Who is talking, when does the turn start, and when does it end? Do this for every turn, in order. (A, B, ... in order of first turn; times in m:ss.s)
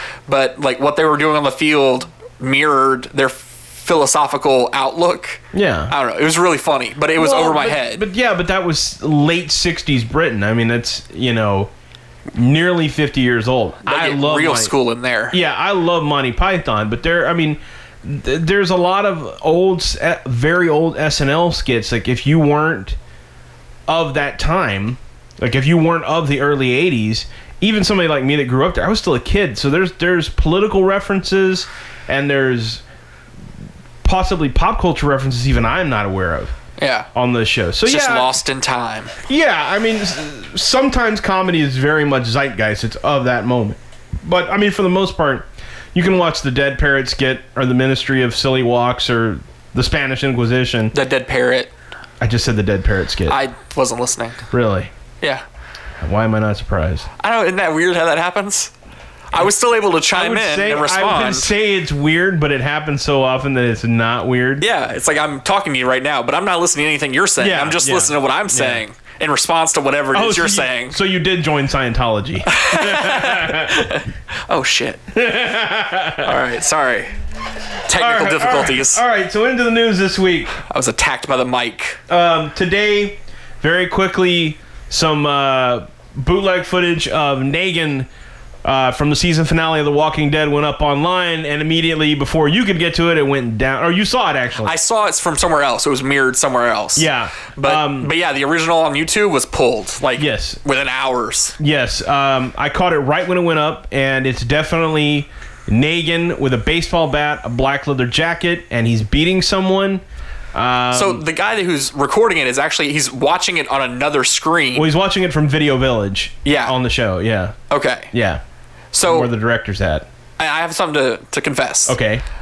0:00.3-0:08.0 A
0:05.5-0:05.9 B
0:07.2-0:11.7 B
0:12.3-0:14.7 B
0:13.8-0:15.4 A
0:15.3-0:23.0 B
0:23.9-0:32.8 B
0:34.0-0:36.5 B
0:36.8-0:37.1 A
0:37.1-0:38.3 B
0:37.8-0:39.1 A
0:39.3-0:50.9 B
0:50.9-0:51.7 A
0:52.2-0:53.4 B
0:53.3-0:54.4 A
0:54.5-0:54.9 B
0:56.0-0:57.1 B
0:57.2-0:58.7 A
0:59.3-1:01.5 A
1:00.1-1:04.7 B
1:04.6-1:11.0 A
1:07.4-1:08.8 B
1:10.1-1:13.9 B
1:12.5-1:15.0 A
1:15.1-1:16.4 B
1:16.2-1:17.2 A
1:17.9-1:19.0 A
1:18.0-1:20.6 B
1:20.7-1:22.0 A
1:22.1-1:28.1 B
1:28.6-1:34.7 B
1:34.6-1:41.6 A
1:37.0-1:38.1 B
1:40.2-1:40.6 B
1:41.6-1:50.0 B
1:50.5-1:51.2 B
1:50.9-1:54.9 A
1:54.8-1:57.6 B
1:56.4-1:56.8 A
1:57.7-1:58.1 A
1:58.1-1:58.4 B
1:58.9-1:59.3 A
1:59.0-2:00.1 B
2:00.4-2:02.0 A
2:01.9-2:02.2 B